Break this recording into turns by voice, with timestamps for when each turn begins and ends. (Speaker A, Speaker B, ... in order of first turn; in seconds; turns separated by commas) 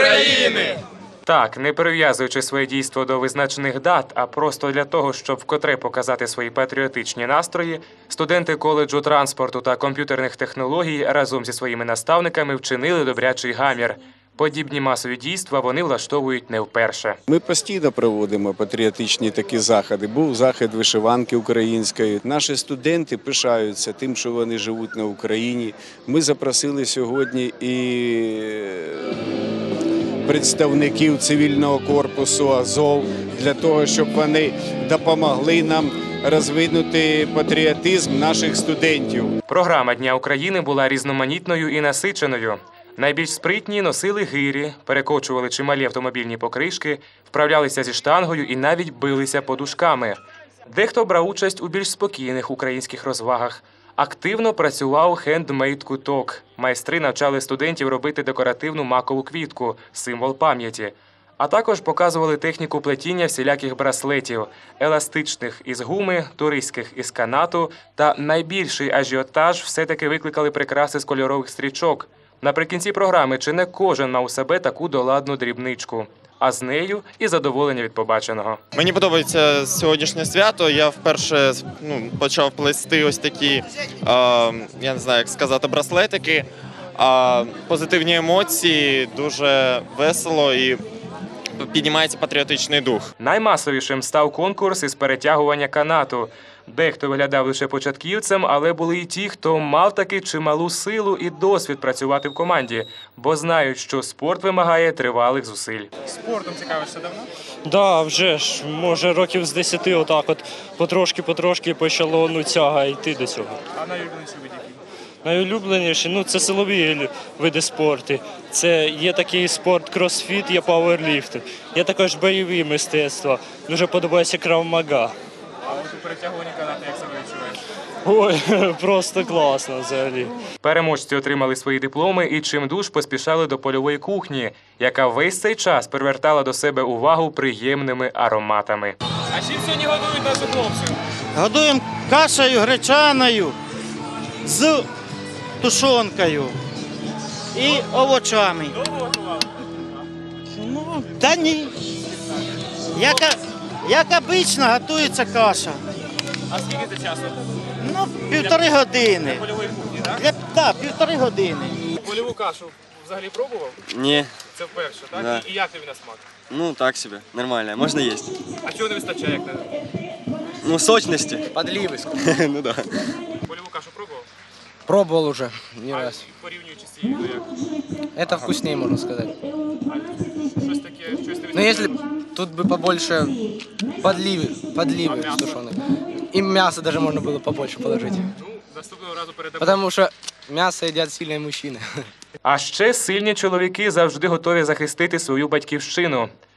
Speaker A: 1.3-17.2, Speaker B: 17.3-29.1, Speaker B: 30.2-39.4, Speaker A: 39.5-78.6, Speaker C: 78.8-90.8, Speaker C: 91.6-93.1, Speaker A: 93.2-105.9, Speaker D: 106.1-107.3, Speaker E: 107.7-113.6, Speaker D: 113.7-114.8, Speaker E: 115.2-125.2, Speaker D: 125.7-127.6, Speaker E: 128.1-130.3, Speaker A: 130.6-139.0, Speaker D: 139.3-141.0, Speaker F: 141.3-143.6, Speaker F: 144.4-144.9, Speaker F: 145.6-146.6, Speaker F: 147.5-148.8, Speaker D: 149.0-149.4, Speaker F: 150.6-151.7, Speaker F: 152.9-155.8, Speaker D: 156.5-157.4, Speaker F: 157.8-159.5, Speaker D: 158.3-158.6, Speaker D: 159.5-160.1, Speaker F: 160.1-161.8, Speaker D: 162.0-163.8, Speaker G: 163.9-164.4, Speaker D: 164.6-166.2, Speaker G: 165.1-165.5, Speaker G: 166.5-168.4, Speaker D: 168.7-169.7, Speaker G: 170.6-171.5, Speaker H: 171.5-172.1, Speaker G: 172.1-173.2, Speaker D: 173.5-174.3, Speaker H: 174.9-176.3, Speaker D: 175.9-177.5, Speaker H: 178.2-179.3, Speaker D: 180.0-182.0, Speaker H: 181.5-183.4, Speaker H: 184.0-185.8, Speaker D: 185.1-185.5, Speaker H: 186.3-188.3, Speaker D: 188.4-189.8, Speaker H: 189.6-192.1, Speaker A: 192.4-196.3